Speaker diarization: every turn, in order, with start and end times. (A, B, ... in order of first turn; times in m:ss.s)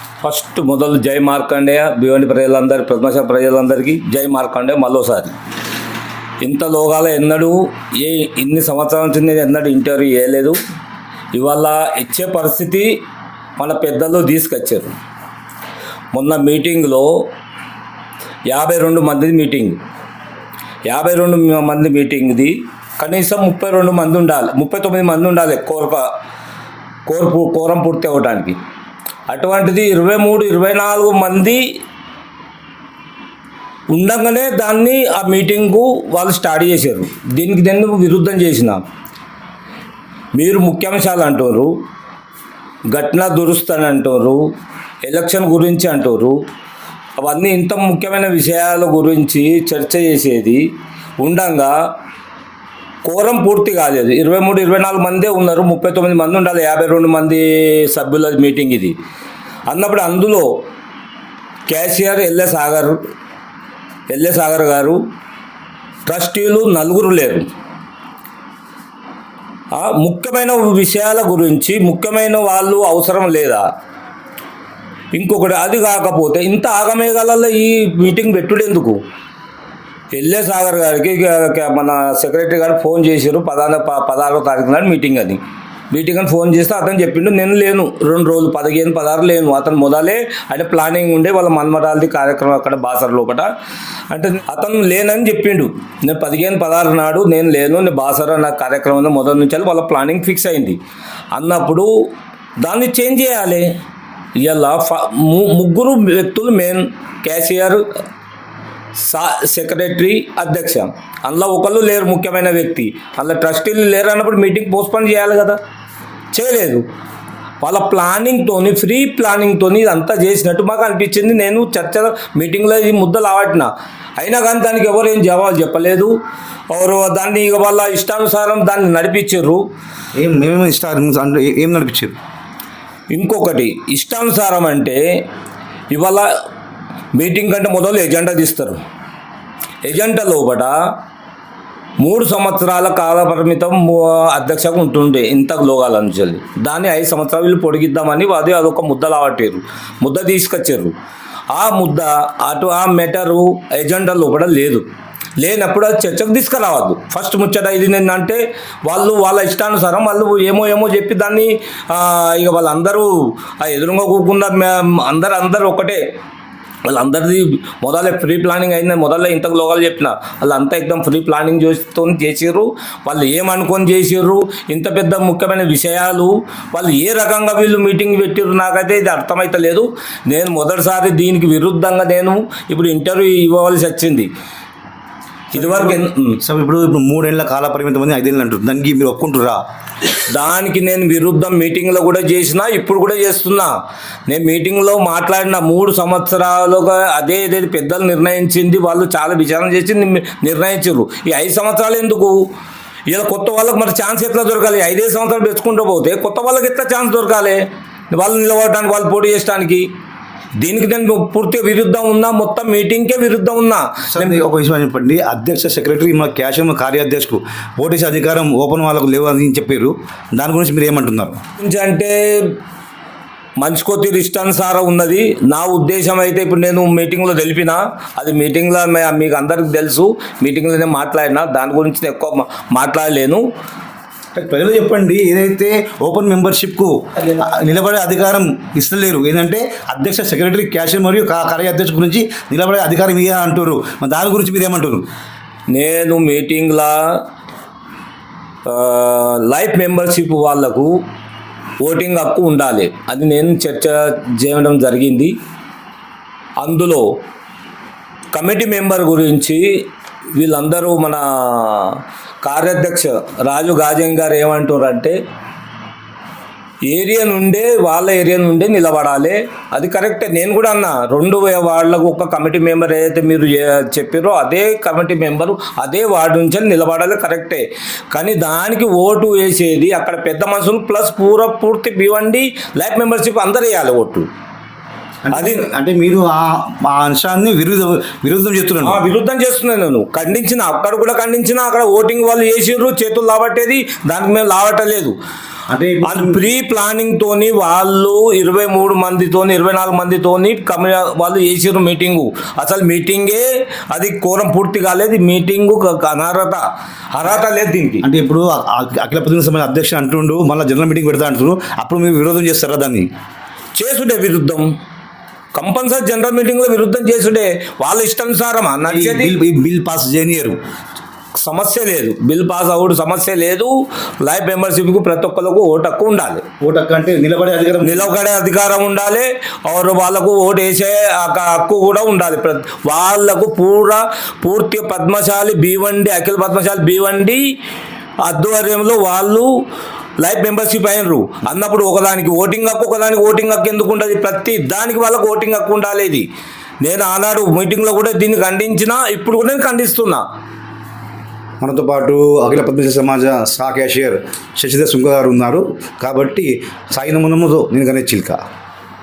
0:00.2-0:05.3 A
0:06.4-0:10.6 A
0:11.3-0:13.0 A
0:13.6-0:15.0 A
0:16.1-0:17.3 A
0:18.5-0:19.8 A
0:20.9-0:26.1 A
0:27.1-0:28.6 A
0:29.3-0:31.6 A
0:33.9-0:38.8 A
0:40.4-0:41.7 A
0:42.9-0:44.4 A
0:45.0-0:46.4 A
0:47.2-0:50.6 A
0:51.2-0:51.7 A
0:53.0-0:59.0 A
0:59.7-1:00.5 A
1:01.7-1:03.0 A
1:04.1-1:05.0 A
1:06.1-1:07.5 A
1:09.7-1:13.7 A
1:15.1-1:19.0 A
1:20.1-1:25.4 A
1:25.9-1:33.5 A
1:34.1-1:40.8 A
1:41.3-1:42.1 A
1:42.6-1:43.7 A
1:44.4-1:47.8 A
1:49.0-1:55.6 A
1:56.3-1:56.8 A
1:57.6-2:06.1 A
2:06.7-2:09.7 A
2:10.2-2:12.2 B
2:13.1-2:15.2 A
2:15.9-2:16.3 A
2:17.1-2:18.8 A
2:19.8-2:20.7 A
2:22.0-2:30.9 A
2:31.5-2:34.8 A
2:35.4-2:46.0 A
2:46.8-3:04.3 A
3:05.5-3:06.4 A
3:05.6-3:09.6 B
3:10.3-3:13.7 A
3:14.3-3:22.5 A
3:23.1-3:29.9 A
3:30.6-3:34.4 A
3:34.1-3:41.4 B
3:41.6-3:42.6 A
3:43.6-3:53.4 A
3:54.4-4:05.1 B
4:05.7-4:07.2 A
4:08.7-4:11.0 A
4:11.8-4:15.3 A
4:16.6-4:17.1 A
4:18.3-4:19.8 A
4:20.3-4:25.2 A
4:26.8-4:44.3 A
4:45.3-4:49.0 B
4:45.3-4:45.7 A
4:48.8-4:55.2 A
4:55.7-4:56.4 B
4:56.0-5:08.0 A
5:08.0-5:13.1 B
5:13.8-5:14.7 A
5:15.5-5:19.3 A
5:18.9-5:20.6 B
5:21.4-5:26.4 A
5:26.6-5:28.1 B
5:27.8-5:37.4 A
5:38.2-5:39.5 A
5:40.2-5:46.3 A
5:46.8-5:50.2 A
5:51.6-5:58.4 B